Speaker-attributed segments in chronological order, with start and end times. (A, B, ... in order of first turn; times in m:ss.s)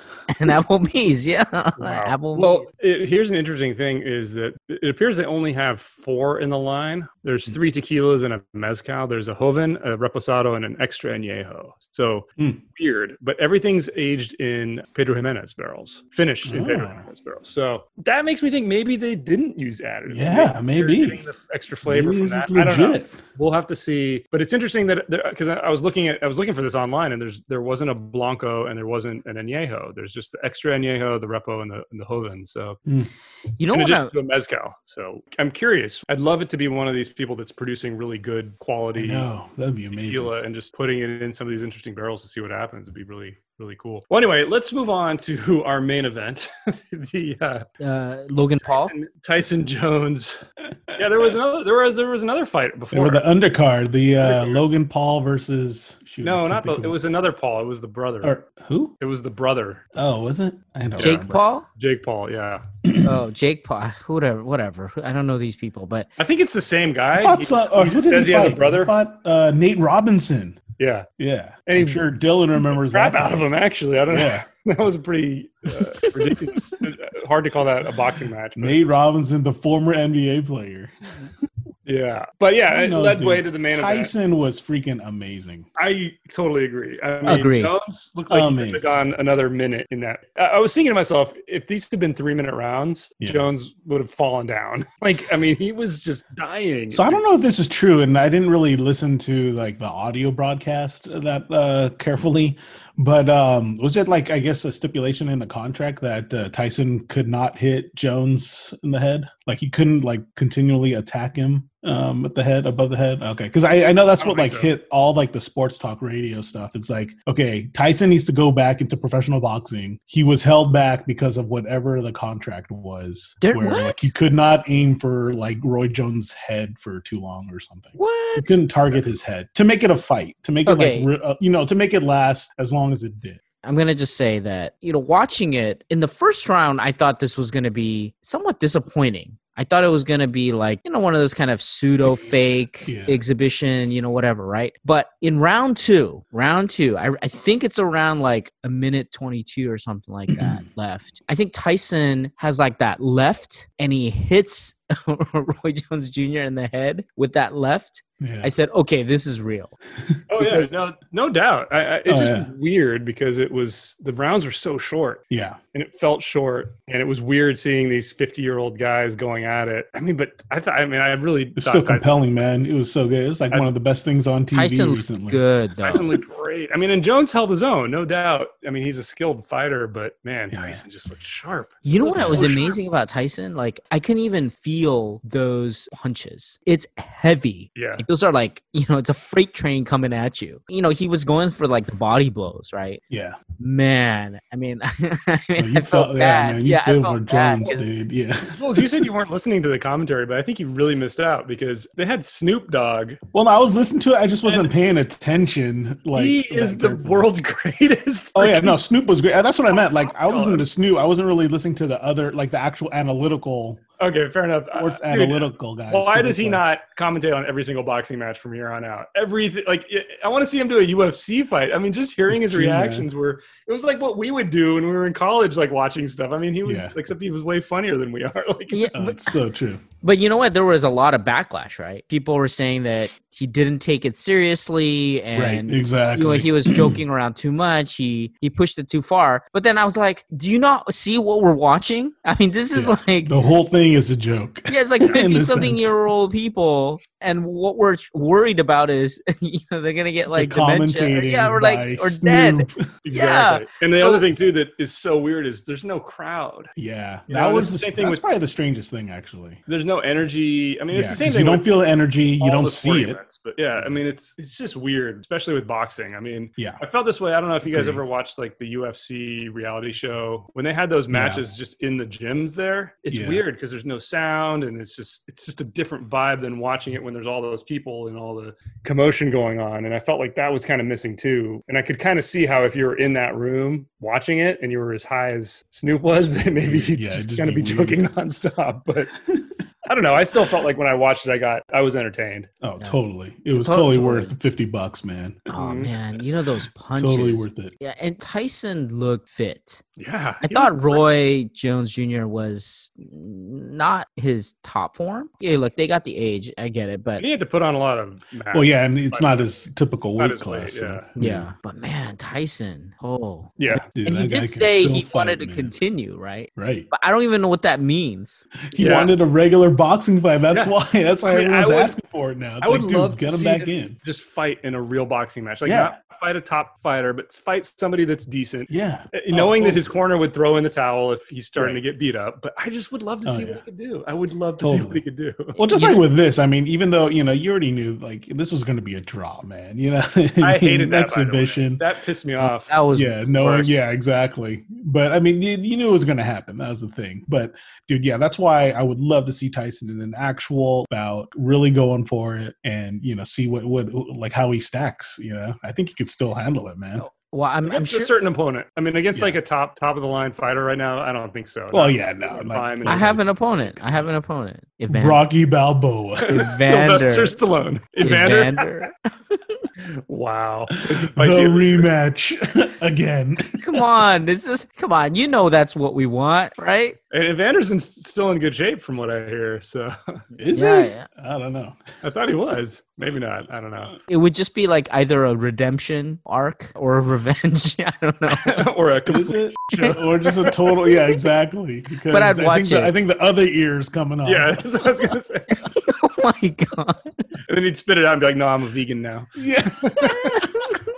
0:00.3-0:02.6 A
0:01.8-0:32.8 B
0:16.4-0:17.0 C
0:20.1-0:21.2 C
0:21.8-0:23.2 C
0:33.6-0:34.1 A
0:33.7-0:39.3 B
0:38.9-0:40.3 C
0:39.9-0:47.6 B
0:47.8-0:48.9 A
0:48.4-0:50.4 B
0:50.9-0:51.3 C
0:51.0-0:53.2 B
0:52.9-0:57.0 C
0:54.2-0:54.6 B
0:56.2-0:58.3 B
0:58.2-0:58.9 C
0:59.0-0:59.8 B
1:00.0-1:01.4 C
1:00.9-1:02.6 B
1:01.0-1:01.7 A
1:02.8-1:03.2 C
1:03.0-1:06.1 A
1:06.2-1:08.9 B
1:07.1-1:10.6 C
1:10.8-1:11.1 B
1:11.2-1:13.4 C
1:11.7-1:12.0 B
1:12.7-1:18.8 B
1:14.1-1:14.4 C
1:15.8-1:16.7 C
1:18.6-1:21.3 C
1:21.8-1:24.1 B
1:22.7-1:25.7 C
1:25.8-1:37.2 B
1:27.2-1:27.7 A
1:28.3-1:28.8 C
1:33.2-1:33.5 C
1:36.9-2:13.4 C
1:54.2-1:54.7 B
2:03.4-2:04.1 A
2:08.0-2:08.6 A
2:10.6-2:11.1 A
2:13.6-2:39.7 A
2:21.9-2:23.2 C
2:30.3-2:30.6 C
2:38.2-2:38.5 C
2:40.1-2:40.6 C
2:40.3-2:45.2 B
2:42.1-2:42.5 C
2:45.3-2:45.6 C
2:45.7-2:52.3 B
2:51.6-2:55.4 C
2:54.5-2:56.1 A
2:55.8-3:02.8 B
3:00.5-3:00.8 C
3:01.8-3:13.0 A
3:02.1-3:02.6 C
3:07.8-3:08.0 B
3:13.1-3:13.4 C
3:13.6-3:17.8 A
3:15.6-3:19.0 C
3:18.6-3:23.2 B
3:23.3-3:27.3 C
3:24.4-3:24.7 B
3:26.1-3:28.8 B
3:28.3-3:33.8 C
3:29.7-3:30.6 B
3:34.0-3:48.9 B
3:34.7-3:36.6 C
3:42.3-3:43.1 C
3:46.6-3:46.9 C
3:48.7-3:49.3 A
3:48.9-3:49.8 C
3:50.0-4:03.4 A
3:55.3-3:57.0 C
4:02.7-4:05.9 C
4:04.7-4:14.3 A
4:10.3-4:12.9 C
4:13.0-4:16.7 B
4:16.8-4:19.6 C
4:17.3-4:18.2 B
4:19.7-4:21.8 B
4:20.9-4:23.2 C
4:22.4-4:49.1 B
4:27.7-4:28.0 C
4:31.1-4:31.4 C
4:33.1-4:33.4 C
4:46.6-4:48.0 C
4:49.2-4:49.6 C
4:49.9-4:52.5 B
4:52.6-4:55.5 C
4:53.5-4:54.3 A
4:55.5-4:55.9 B
4:55.5-4:59.8 A
4:56.9-4:57.7 C
5:00.0-5:01.0 B
5:00.4-5:07.2 A
5:07.2-5:11.1 B
5:08.5-5:11.5 C
5:11.2-5:18.4 A
5:13.6-5:13.9 B
5:13.9-5:15.7 C
5:16.6-5:16.9 C
5:18.7-5:24.0 C
5:18.7-5:19.1 B
5:21.3-5:21.9 B
5:22.6-5:35.6 B
5:25.6-5:25.9 C
5:28.7-5:29.9 C
5:31.6-5:31.8 C
5:33.2-5:33.6 C
5:34.6-5:35.0 C
5:35.5-5:41.8 C
5:35.7-5:36.0 A
5:40.4-5:42.7 B
5:42.4-5:43.2 A
5:42.9-5:57.0 C
5:43.3-5:43.9 B
5:57.0-5:58.1 A
5:57.6-6:04.1 B
6:01.7-6:03.2 C
6:02.8-6:05.2 A
6:04.9-6:06.4 C
6:06.3-6:07.4 A
6:06.3-6:08.9 B
6:08.0-6:09.6 A
6:10.1-6:11.9 B
6:11.1-6:13.8 C
6:13.6-6:17.0 A
6:17.1-6:20.2 B
6:20.4-6:21.8 C
6:20.5-6:21.0 A
6:22.0-6:23.9 B
6:24.1-6:28.6 A
6:28.4-6:30.9 B
6:29.1-6:35.1 C
6:32.1-6:32.9 A
6:34.2-6:35.7 B
6:35.7-6:37.0 A
6:37.4-6:39.3 B
6:39.4-6:40.8 C
6:39.8-6:40.1 B